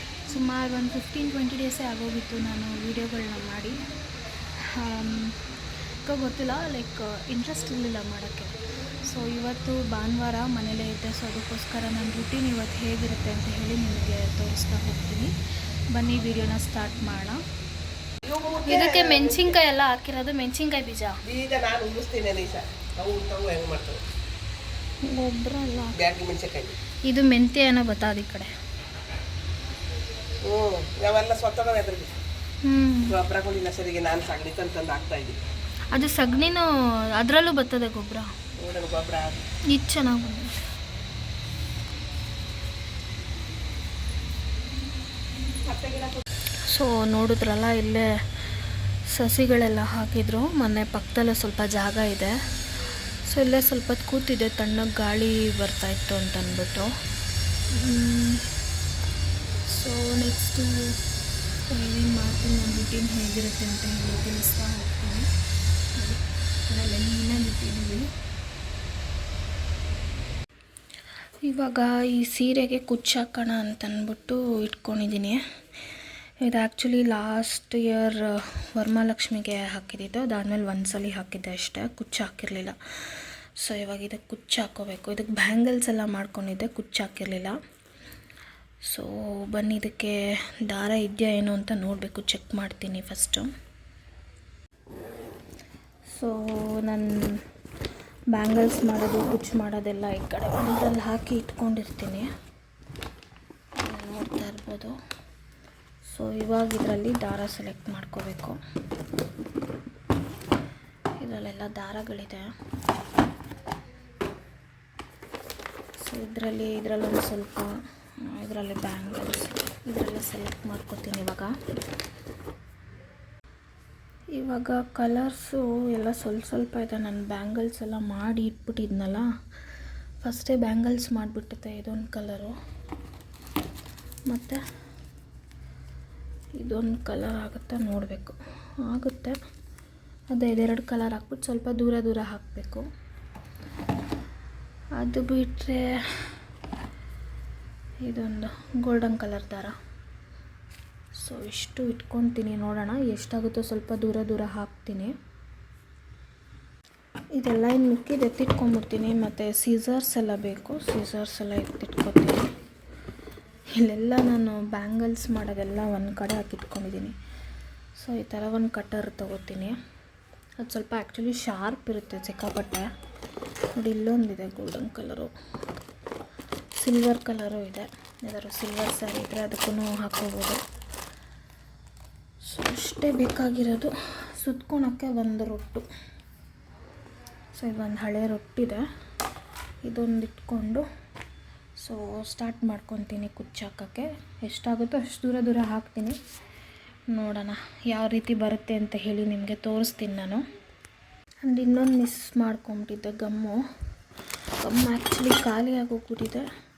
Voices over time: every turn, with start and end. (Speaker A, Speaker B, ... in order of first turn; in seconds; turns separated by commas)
Speaker A: 0.2-3.8, Speaker A: 4.6-5.5, Speaker A: 6.0-15.3, Speaker A: 15.9-17.4, Speaker B: 18.3-19.1, Speaker A: 18.6-21.2, Speaker B: 21.3-24.0, Speaker A: 25.0-26.0, Speaker B: 26.0-26.7, Speaker A: 27.1-28.5, Speaker B: 30.4-32.1, Speaker A: 32.6-33.2, Speaker B: 33.1-35.4, Speaker A: 35.9-38.3, Speaker B: 38.6-39.4, Speaker A: 39.7-40.5, Speaker B: 45.7-46.1, Speaker A: 46.6-48.1, Speaker A: 49.1-52.3, Speaker A: 53.2-56.9, Speaker A: 57.7-58.4, Speaker A: 59.7-60.9, Speaker A: 61.7-65.3, Speaker A: 66.0-68.1, Speaker A: 71.4-75.4, Speaker A: 76.4-87.5, Speaker A: 88.9-93.5, Speaker A: 96.1-97.4, Speaker A: 98.3-102.3, Speaker A: 103.8-105.0, Speaker A: 106.0-108.6, Speaker A: 111.2-112.5, Speaker A: 116.0-121.5, Speaker A: 124.3-129.3, Speaker A: 130.2-132.5, Speaker A: 134.3-134.6, Speaker A: 136.6-139.4, Speaker A: 140.3-142.8, Speaker A: 145.0-146.3, Speaker A: 148.0-149.8, Speaker A: 151.2-155.1, Speaker A: 157.3-162.5, Speaker A: 163.7-167.1, Speaker A: 167.9-169.8, Speaker A: 170.6-172.9, Speaker A: 173.7-175.3, Speaker A: 176.8-180.6, Speaker A: 182.4-185.8, Speaker A: 187.5-188.8, Speaker A: 189.8-190.8, Speaker A: 191.8-196.2, Speaker A: 197.1-200.4, Speaker A: 201.4-203.6, Speaker A: 204.6-206.4